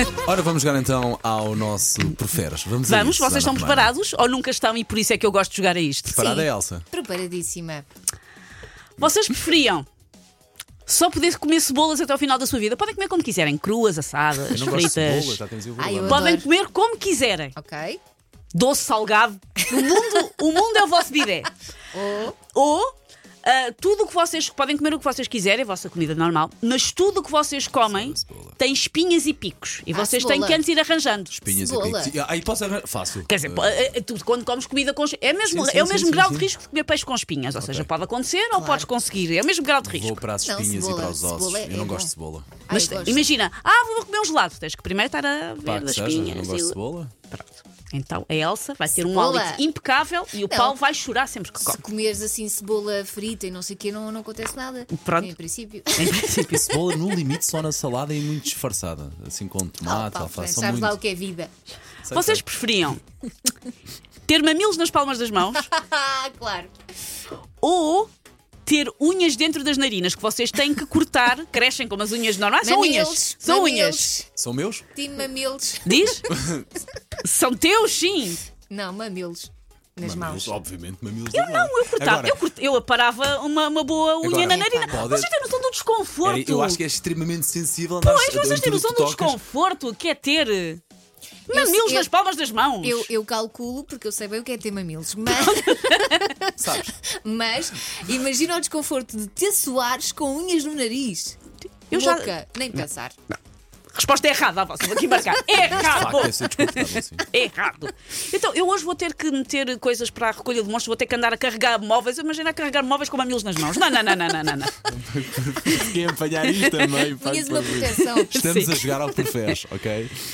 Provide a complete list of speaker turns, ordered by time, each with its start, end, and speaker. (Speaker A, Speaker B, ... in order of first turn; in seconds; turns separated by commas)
Speaker A: 0.2-3.9, Speaker B: 2.8-6.2, Speaker A: 6.1-6.8, Speaker C: 6.1-7.8, Speaker B: 9.0-9.8, Speaker B: 10.8-15.4, Speaker A: 14.5-16.3, Speaker C: 15.8-16.5, Speaker B: 16.1-17.5, Speaker C: 17.6-18.0, Speaker B: 18.5-21.5, Speaker C: 21.9-22.4, Speaker B: 22.5-22.9, Speaker B: 23.4-31.3, Speaker A: 27.9-28.6, Speaker C: 29.9-30.6, Speaker A: 31.3-33.9, Speaker C: 31.5-32.1, Speaker B: 33.2-40.2, Speaker A: 35.5-36.5, Speaker A: 37.6-37.9, Speaker C: 38.5-38.9, Speaker A: 39.8-42.5, Speaker C: 40.4-42.1, Speaker C: 42.7-43.3, Speaker B: 42.7-46.8, Speaker A: 45.6-47.1, Speaker B: 47.3-51.8, Speaker C: 49.0-49.6, Speaker C: 50.5-50.8, Speaker C: 51.6-56.8, Speaker B: 54.9-55.3, Speaker B: 55.9-56.7, Speaker A: 56.4-61.0, Speaker C: 59.8-61.5, Speaker A: 62.0-62.4, Speaker B: 62.1-63.0, Speaker B: 64.2-65.7, Speaker C: 65.6-66.7, Speaker B: 67.6-68.1, Speaker B: 68.6-74.1, Speaker C: 72.6-74.3, Speaker A: 74.4-74.9, Speaker C: 74.9-76.1, Speaker B: 75.8-76.3, Speaker A: 76.2-76.7, Speaker B: 77.2-78.4, Speaker C: 78.7-80.5, Speaker A: 80.0-82.4, Speaker B: 81.3-86.8, Speaker A: 84.2-85.3, Speaker C: 84.4-85.0, Speaker A: 86.2-89.4, Speaker B: 88.0-90.8, Speaker B: 91.5-93.1, Speaker C: 91.5-92.1, Speaker C: 92.8-101.4, Speaker B: 95.3-96.3, Speaker A: 96.6-96.9, Speaker B: 101.9-102.3, Speaker C: 101.9-103.1, Speaker B: 103.9-114.9, Speaker A: 105.7-107.3, Speaker A: 114.8-120.2, Speaker B: 116.5-117.0, Speaker C: 117.0-118.3, Speaker B: 118.3-119.3